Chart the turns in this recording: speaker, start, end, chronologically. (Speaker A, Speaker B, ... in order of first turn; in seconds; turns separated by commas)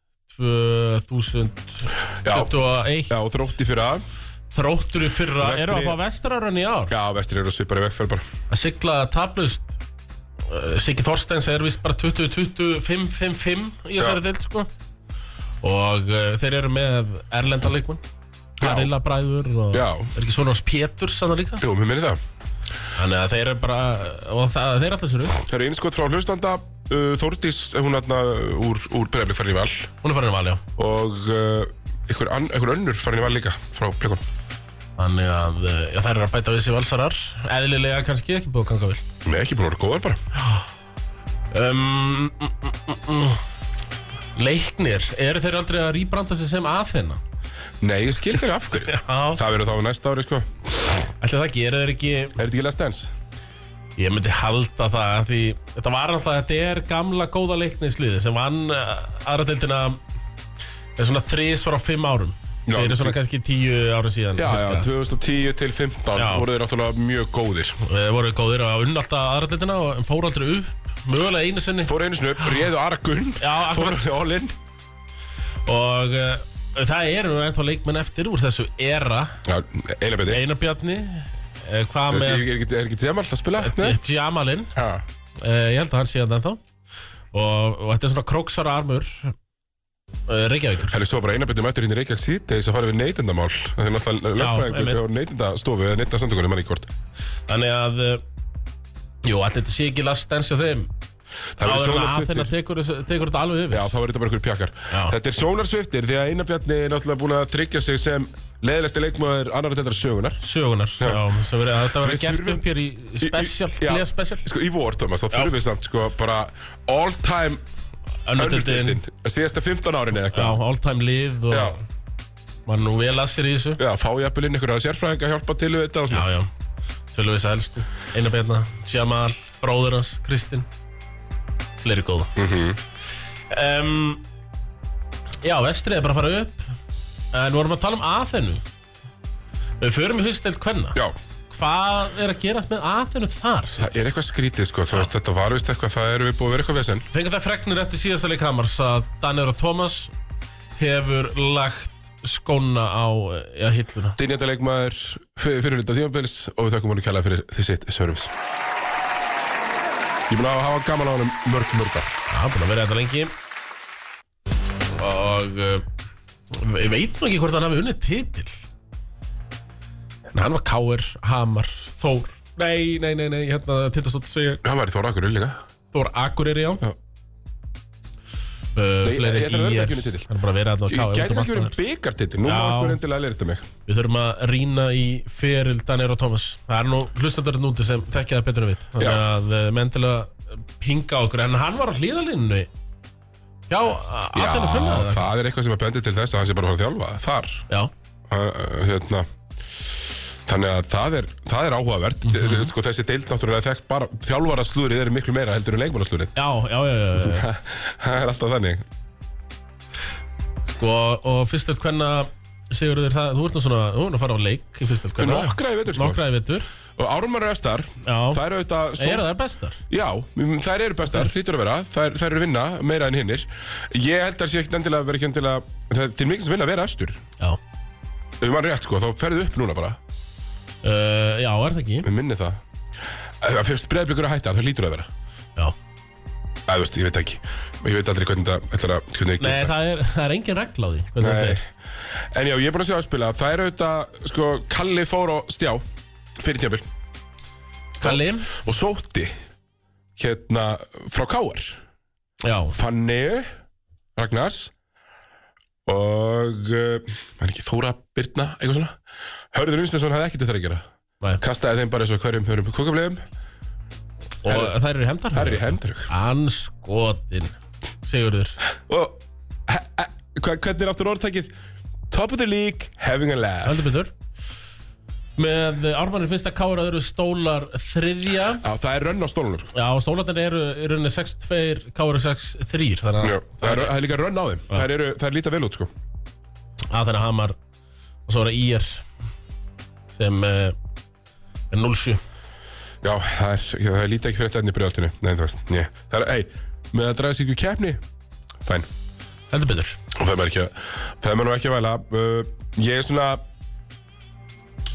Speaker A: 0.3-3.3, Speaker B: 2.2-2.5, Speaker B: 3.1-4.0, Speaker A: 4.5-6.9, Speaker B: 5.4-6.0, Speaker B: 6.9-8.3, Speaker A: 8.5-9.8, Speaker A: 10.5-14.7, Speaker A: 15.6-18.0, Speaker A: 18.6-21.6, Speaker B: 18.6-18.9, Speaker B: 19.7-20.1, Speaker B: 21.6-22.2, Speaker A: 23.0-25.4, Speaker B: 25.4-29.9, Speaker A: 30.0-30.6, Speaker B: 30.8-34.2, Speaker A: 35.0-39.0, Speaker B: 39.2-40.2, Speaker A: 41.5-43.4, Speaker A: 44.4-47.2, Speaker B: 47.8-50.5, Speaker A: 48.9-49.4, Speaker A: 51.2-52.4, Speaker B: 52.4-53.1, Speaker A: 54.0-60.0, Speaker A: 61.0-64.9, Speaker B: 62.7-63.2, Speaker B: 64.4-67.8, Speaker A: 66.2-66.5, Speaker A: 67.8-72.6, Speaker B: 71.9-74.5, Speaker A: 73.4-74.2, Speaker A: 75.7-79.4, Speaker B: 79.5-80.4, Speaker A: 80.3-82.5, Speaker B: 82.1-84.0, Speaker A: 83.6-84.7, Speaker B: 84.8-85.0, Speaker A: 85.4-86.6, Speaker A: 87.3-89.3, Speaker A: 90.3-91.0, Speaker B: 90.9-96.9, Speaker A: 94.4-95.2, Speaker A: 97.5-98.2, Speaker A: 99.2-100.9, Speaker B: 101.6-102.5, Speaker A: 101.6-103.9, Speaker B: 103.7-110.4, Speaker A: 104.9-105.2, Speaker A: 110.4-114.5, Speaker B: 112.0-112.7, Speaker B: 113.2-117.6, Speaker A: 118.3-119.0, Speaker B: 118.4-120.6, Speaker A: 120.3-121.8, Speaker B: 121.5-121.8, Speaker A: 122.7-123.8, Speaker B: 123.8-126.3, Speaker A: 126.1-126.5, Speaker A: 127.1-130.7, Speaker A: 131.8-132.3, Speaker B: 132.4-132.8, Speaker A: 133.5-134.2, Speaker A: 135.4-136.7, Speaker A: 137.3-138.6, Speaker A: 139.8-141.0, Speaker A: 141.5-143.9, Speaker B: 143.8-147.1, Speaker A: 147.1-150.1, Speaker A: 150.8-154.2, Speaker B: 154.2-158.3, Speaker B: 160.3-162.2, Speaker A: 162.3-163.3, Speaker A: 164.9-165.9, Speaker A: 166.5-168.6, Speaker A: 170.3-174.6, Speaker B: 174.6-175.6, Speaker A: 175.9-176.8, Speaker A: 178.8-181.8, Speaker B: 179.0-180.3, Speaker B: 180.9-183.7, Speaker A: 182.4-183.0, Speaker A: 183.9-192.7, Speaker A: 193.7-195.3, Speaker B: 194.3-197.7, Speaker B: 198.3-199.3, Speaker B: 200.5-206.3, Speaker A: 202.3-202.7, Speaker A: 206.4-207.5, Speaker B: 207.2-208.8, Speaker A: 210.7-216.7, Speaker B: 215.2-216.2, Speaker B: 217.0-219.3, Speaker A: 218.0-218.4, Speaker A: 219.0-219.8, Speaker B: 219.9-227.2, Speaker B: 228.4-230.0, Speaker A: 230.8-232.1, Speaker B: 232.0-232.6, Speaker B: 233.4-235.1, Speaker B: 236.7-239.7, Speaker A: 239.4-241.6, Speaker B: 241.2-245.8, Speaker B: 246.4-246.9, Speaker A: 248.0-248.6, Speaker B: 248.0-249.3, Speaker B: 250.2-251.8, Speaker A: 252.4-252.8, Speaker B: 252.8-253.5, Speaker B: 254.2-254.7, Speaker B: 255.8-259.0, Speaker B: 259.5-260.9, Speaker B: 261.4-263.2, Speaker A: 264.4-268.6, Speaker B: 264.5-264.8, Speaker B: 265.3-266.1, Speaker B: 268.9-271.5, Speaker B: 272.1-273.8, Speaker A: 273.6-274.1, Speaker A: 275.4-278.6, Speaker B: 278.6-279.7, Speaker A: 279.7-283.9, Speaker B: 283.2-285.9, Speaker A: 286.9-287.6, Speaker A: 288.3-289.1, Speaker A: 290.1-290.8, Speaker A: 291.7-292.2, Speaker B: 293.0-298.0, Speaker B: 298.6-298.9, Speaker A: 299.5-300.0, Speaker B: 300.1-303.4